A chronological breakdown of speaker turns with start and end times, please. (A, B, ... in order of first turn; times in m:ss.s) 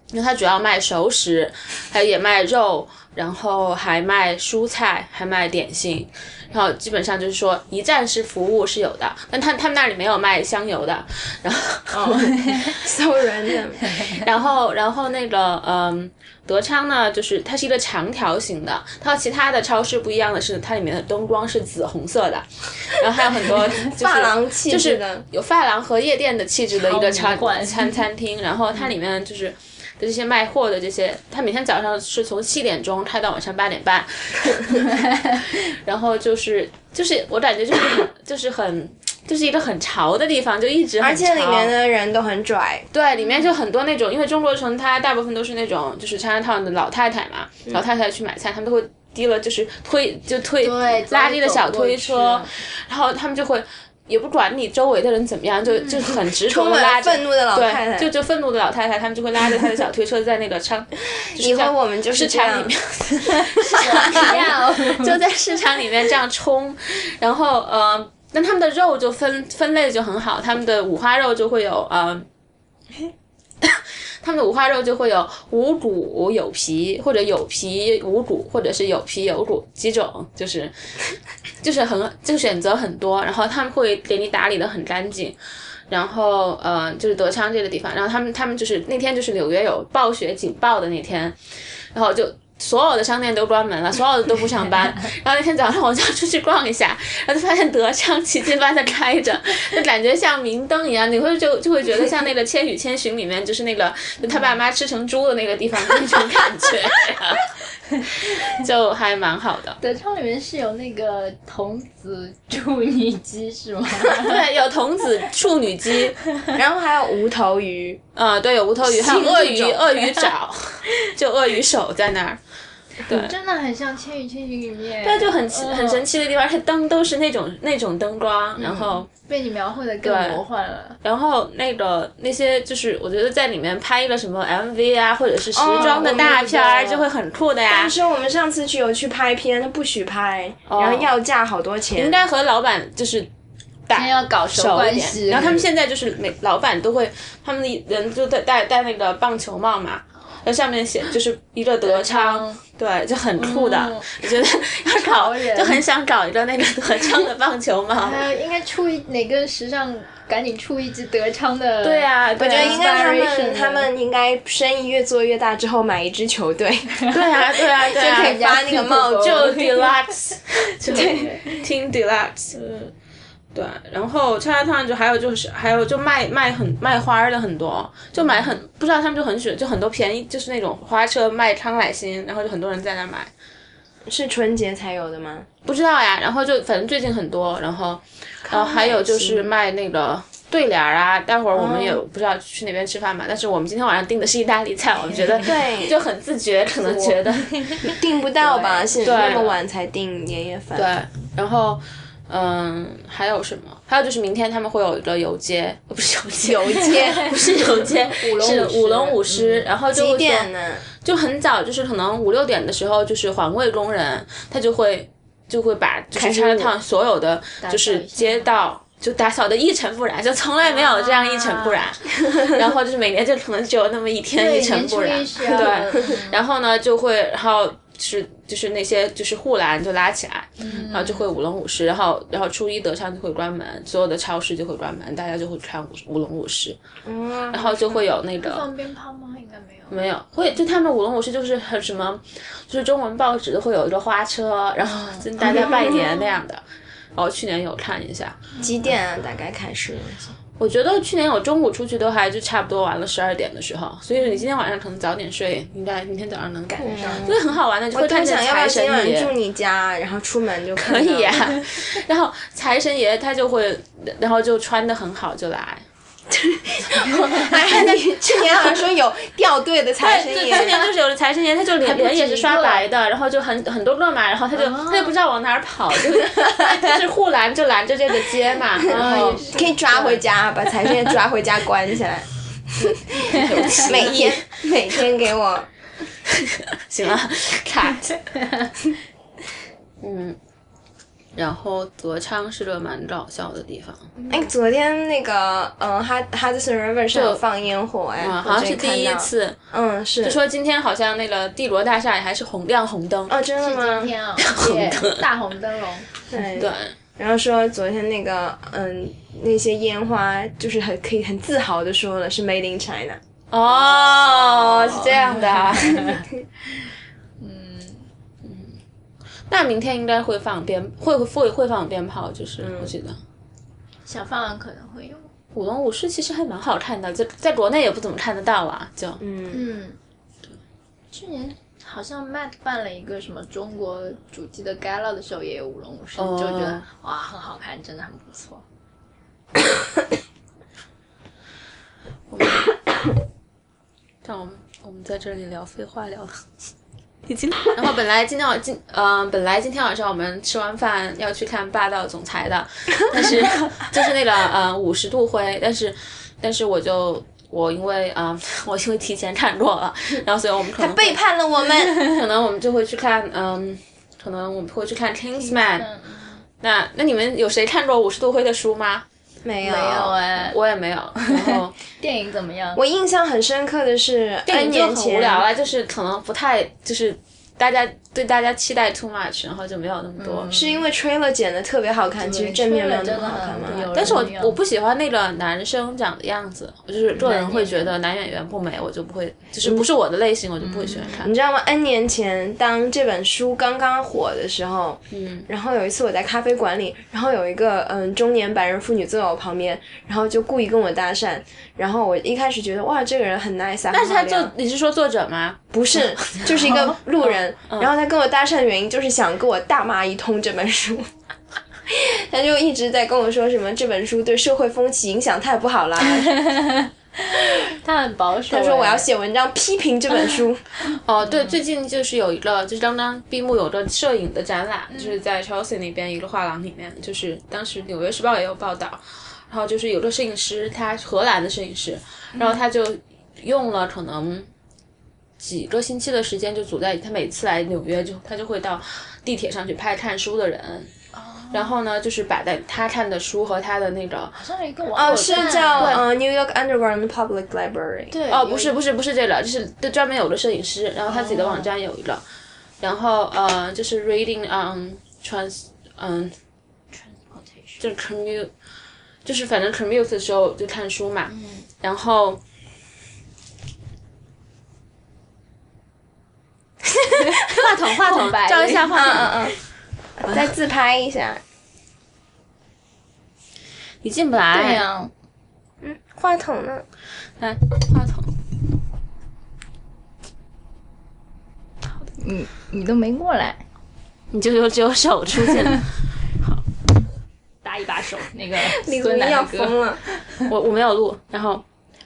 0:00.1-0:12.4 A
0:12.0-0:14.0 B
0:12.1-0:12.8 C
0:13.9-0:41.7 A
0:14.0-0:14.2 C
0:23.8-0:25.2 B
0:26.7-0:28.0 C
0:41.0-0:42.9 B
0:42.9-1:12.3 A
0:43.2-0:43.5 C
0:50.6-0:52.6 C
0:55.8-0:56.1 C
0:56.5-0:58.1 B
1:01.2-1:02.7 B
1:03.6-1:05.2 C
1:03.8-1:04.4 B
1:13.6-1:20.8 A
1:21.6-1:25.4 A
1:25.9-1:31.4 A
1:31.9-1:49.8 A
1:49.8-1:54.5 C
1:54.0-1:56.2 A
1:56.5-1:58.0 B
1:58.2-2:02.4 A
1:58.8-2:00.0 B
2:03.0-2:03.3 A
2:03.1-2:06.1 C
2:05.0-2:09.1 A
2:08.7-2:11.0 C
2:10.0-2:10.4 A
2:11.0-2:18.0 A
2:15.6-2:17.0 B
2:15.8-2:16.9 C
2:17.7-2:22.2 B
2:20.7-2:21.1 A
2:22.0-2:23.3 A
2:23.9-2:38.2 A
2:23.9-2:25.6 C
2:31.8-2:32.6 C
2:33.4-2:35.8 C
2:38.0-2:43.9 C
2:41.8-2:42.8 A
2:42.4-2:47.1 B
2:47.1-2:48.6 A
2:47.8-2:49.9 C
2:47.9-2:49.5 B
2:49.2-2:52.9 A
2:50.9-2:51.4 C
2:50.9-2:51.4 B
2:53.5-3:03.3 A
2:58.2-2:58.5 B
3:04.1-3:05.5 B
3:05.6-3:19.6 A
3:08.4-3:09.5 B
3:11.5-3:12.0 B
3:15.4-3:16.0 B
3:16.8-3:17.2 B
3:17.8-3:20.9 B
3:18.7-3:18.9 C
3:20.8-3:56.8 A
3:26.4-3:27.3 B
3:27.8-3:29.7 C
3:29.9-3:30.8 B
3:36.2-3:36.7 B
3:37.6-3:38.5 C
3:40.6-3:41.9 C
3:44.4-3:46.4 C
3:50.6-3:51.3 C
3:57.0-3:57.8 B
3:57.5-3:58.7 A
3:58.4-4:00.0 C
3:59.9-4:06.6 A
4:04.9-4:06.0 C
4:05.4-4:06.1 B
4:07.2-4:08.4 A
4:08.5-4:08.9 C
4:08.6-4:10.4 B
4:10.6-4:19.3 A
4:16.8-4:17.3 C
4:16.8-4:17.4 B
4:17.9-4:21.5 B
4:20.8-4:25.8 A
4:26.3-4:30.8 B
4:27.0-4:28.8 A
4:30.0-4:40.2 A
4:31.8-4:32.8 C
4:34.5-4:35.2 C
4:38.8-4:40.2 C
4:38.9-4:45.7 B
4:43.3-4:44.7 A
4:43.5-4:43.9 C
4:46.3-4:48.2 A
4:50.0-4:50.4 A
4:51.4-4:54.1 A
4:54.2-4:54.5 C
4:54.3-5:00.4 B
4:57.1-4:57.4 A
4:58.2-4:59.6 A
5:00.2-5:03.3 A
5:03.3-5:04.1 B
5:03.6-5:06.1 C
5:04.4-5:05.3 A
5:06.3-5:15.2 B
5:06.6-5:07.0 A
5:13.5-5:16.2 A
5:15.2-5:16.3 C
5:17.4-5:18.1 C
5:18.4-5:18.8 A
5:19.5-5:23.2 A
5:22.6-5:22.9 B
5:24.1-5:25.3 C
5:25.5-5:29.2 A
5:29.2-5:29.6 B
5:29.5-5:30.0 C
5:31.1-5:38.6 C
5:36.2-5:36.8 A
5:42.3-5:42.7 A
5:44.2-5:46.5 A
5:47.3-6:01.2 A
6:00.8-6:02.0 B
6:01.9-6:05.9 A
6:05.4-6:06.4 C
6:06.6-6:09.0 A
6:09.4-6:10.2 B
6:09.6-6:10.6 C
6:10.5-6:11.8 A
6:11.3-6:12.8 C
6:12.8-6:15.5 B
6:14.5-6:20.5 A
6:20.2-6:20.8 C
6:20.5-6:23.9 B
6:22.2-6:24.6 C
6:23.7-6:31.3 A
6:27.2-6:28.0 C
6:30.7-6:31.2 C
6:31.2-6:44.5 B
6:35.1-6:35.5 A
6:43.9-6:46.5 A
6:45.7-6:51.1 B
6:46.5-6:47.0 C
6:47.3-6:47.9 A
6:51.9-6:56.3 B
6:56.0-6:59.1 C
6:58.5-7:00.7 B
7:00.9-7:14.5 A
7:01.2-7:01.6 C
7:04.9-7:05.2 C
7:12.4-7:12.6 C
7:15.4-7:20.9 A
7:21.1-7:21.7 C
7:21.5-7:24.4 A
7:24.4-7:26.0 C
7:24.9-7:26.0 A
7:24.9-7:28.2 B
7:28.1-7:28.8 C
7:28.3-7:32.2 A
7:31.1-7:31.7 C
7:32.8-7:36.4 A
7:36.9-7:37.8 C
7:37.8-7:38.5 A
7:39.2-7:42.4 A
7:41.3-7:41.7 C
7:47.4-7:49.4 C
7:47.5-7:49.5 A
7:48.9-7:49.6 B
7:50.2-7:51.4 B
7:54.0-7:54.8 A
7:54.5-7:55.1 C
7:55.8-7:56.8 B
7:57.4-7:58.3 A
8:02.0-8:03.6 C
8:04.3-8:06.6 A
8:07.6-8:10.4 C
8:08.6-8:10.0 B
8:10.5-8:11.6 A